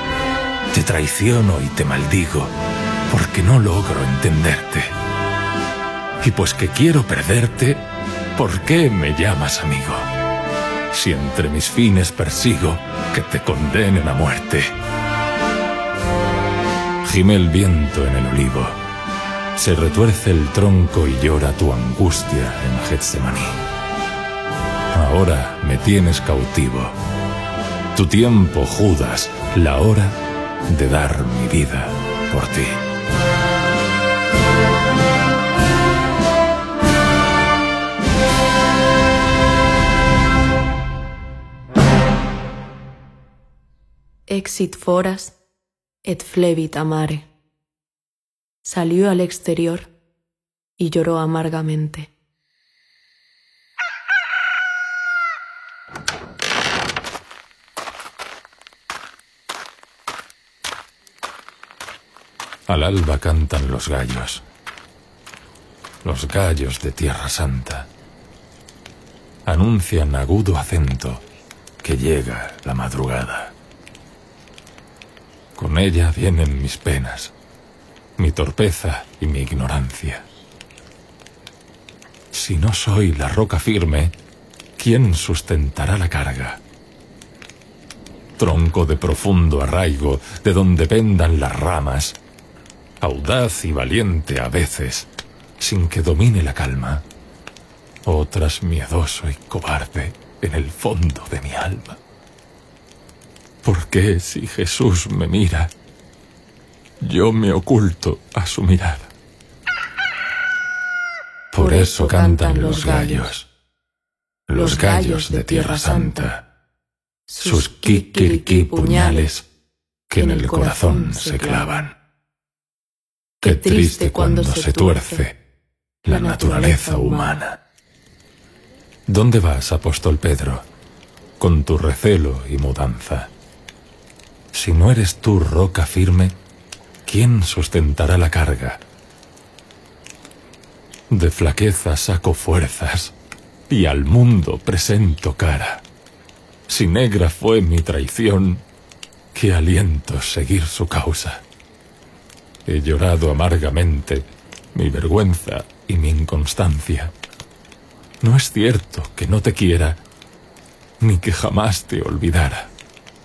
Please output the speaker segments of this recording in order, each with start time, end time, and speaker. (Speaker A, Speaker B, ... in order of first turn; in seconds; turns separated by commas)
Speaker A: 0.7-2.5, Speaker A: 3.1-4.9, Speaker A: 6.2-10.1, Speaker A: 10.9-14.7, Speaker A: 17.0-18.8, Speaker A: 19.5-23.6, Speaker A: 24.9-26.9, Speaker A: 27.9-32.8, Speaker B: 44.3-45.4, Speaker B: 46.0-47.3, Speaker B: 48.6-49.9, Speaker B: 50.8-52.1, Speaker A: 62.7-64.4, Speaker A: 66.0-67.9, Speaker A: 69.5-71.2, Speaker A: 71.8-73.5, Speaker A: 75.5-77.3, Speaker A: 78.2-80.2, Speaker A: 82.3-84.1, Speaker A: 84.8-86.6, Speaker A: 88.4-92.2, Speaker A: 93.0-97.0, Speaker A: 98.0-102.0, Speaker A: 103.6-105.7, Speaker A: 107.0-109.1, Speaker A: 111.5-113.5, Speaker B: 111.6-113.3, Speaker A: 114.5-116.4, Speaker B: 114.5-116.3, Speaker B: 117.3-119.3, Speaker A: 117.4-119.5, Speaker A: 120.1-121.9, Speaker B: 120.1-121.9, Speaker B: 123.4-125.3, Speaker A: 123.4-125.4, Speaker A: 126.0-127.6, Speaker B: 126.1-127.4, Speaker A: 129.1-130.7, Speaker A: 131.4-133.3, Speaker A: 134.5-136.4, Speaker A: 137.0-138.8, Speaker A: 141.1-143.1, Speaker A: 143.7-145.8, Speaker A: 146.7-148.6, Speaker A: 149.3-151.4, Speaker A: 152.6-157.1, Speaker A: 158.2-160.0, Speaker A: 161.0-162.7